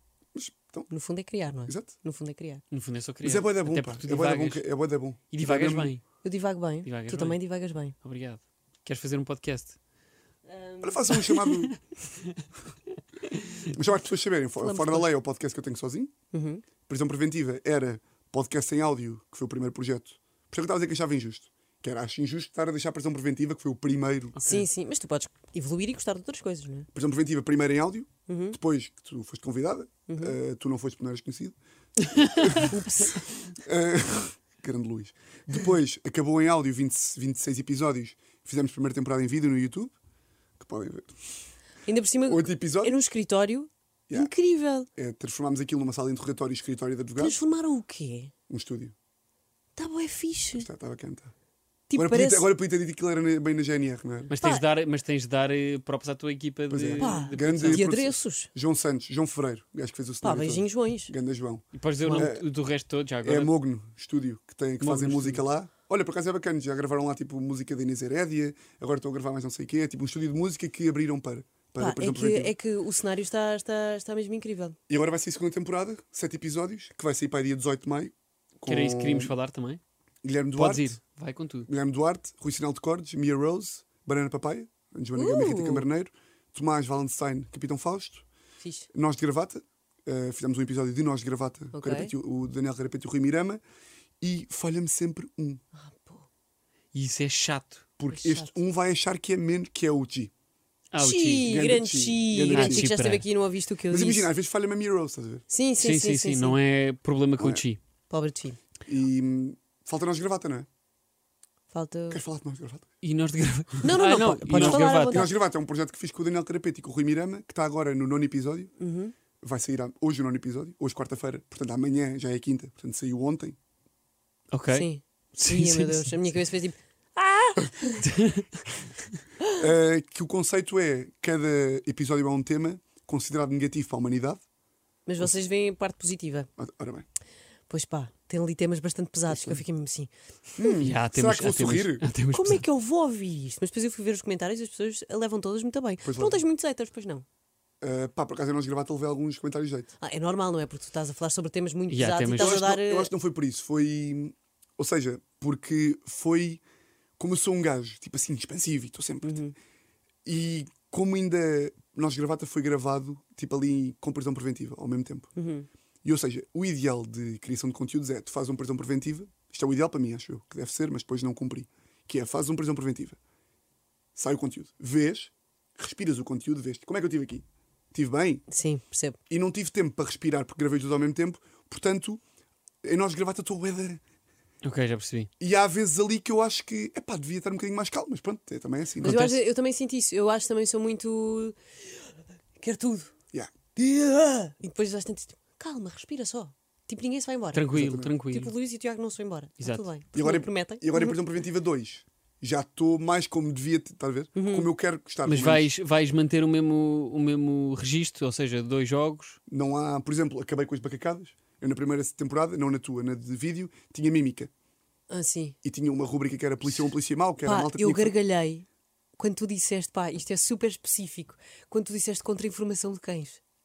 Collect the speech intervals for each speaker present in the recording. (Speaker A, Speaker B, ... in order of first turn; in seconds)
Speaker A: 0.3-0.9, 1.7-1.9, 3.2-5.9, 10.8-11.8, 13.7-16.1, 16.9-24.4, 26.9-31.6, 32.1-39.9, 40.6-41.4, 42.3-43.0, 45.0-47.4, 48.5-48.9, 50.6-51.3, 51.9-54.3, 56.7-62.5, 63.2-72.5, 74.9-79.3, 80.2-81.0, 81.7-88.3, 88.9-93.6, 94.2-95.6, 98.0-100.3, 101.4-102.9, 103.9-105.4, 108.9-110.7, 112.1-112.9, 114.5-118.7, 119.4-123.6, 129.6-134.4, 136.6-137.1, 139.3-139.6, 140.6-142.1, 146.0-146.4, 147.8-149.9, 152.4-156.6, 157.2-159.4, 160.2-165.3, 166.0-173.2, 174.2-178.4, 179.3-182.2, 182.8-184.0, 185.4-189.3, 197.7-198.1, 200.1-205.7, 209.5-214.5, 215.6-218.1
Speaker B: 0.9-2.6, 6.2-8.0, 10.5-11.1, 14.6-15.1, 16.3-16.6, 24.4-26.9, 28.3-28.6, 30.1-30.3, 32.7-33.2, 41.9-44.9, 47.2-48.3, 49.8-50.7, 51.9-52.5, 57.0-58.5, 60.2-61.1, 62.0-62.3, 71.8-74.8, 85.2-85.9, 88.6-88.9, 91.7-92.1, 95.8-96.3, 98.1-98.5, 101.0-104.3, 105.5-106.6, 108.1-108.6, 111.7-112.2, 113.8-115.3, 118.8-119.1, 124.7-128.1, 135.1-136.5, 137.7-140.9, 142.3-147.2, 150.0-153.1, 159.2-159.6, 165.4-165.7, 178.5-179.2, 189.0-191.6, 192.6-193.1, 193.8-197.7, 198.3-201.2, 204.3-204.7, 215.1-215.6, 217.4-218.7, 219.2-223.4
Speaker C: 2.7-4.6, 5.3-6.0, 6.8-7.4, 8.0-9.8, 11.1-11.8, 24.4-24.6, 32.0-32.7, 54.3-57.9, 61.8-63.5, 64.8-65.4, 78.7-79.8, 80.6-81.7, 96.9-97.9, 100.9-101.7, 102.5-103.2, 105.8-107.8, 113.0-115.2, 124.5-126.2, 128.0-128.6, 140.8-142.6, 151.9-152.6, 184.6-185.3, 189.0-189.4, 197.5-198.5, 199.6-199.8, 205.2-209.4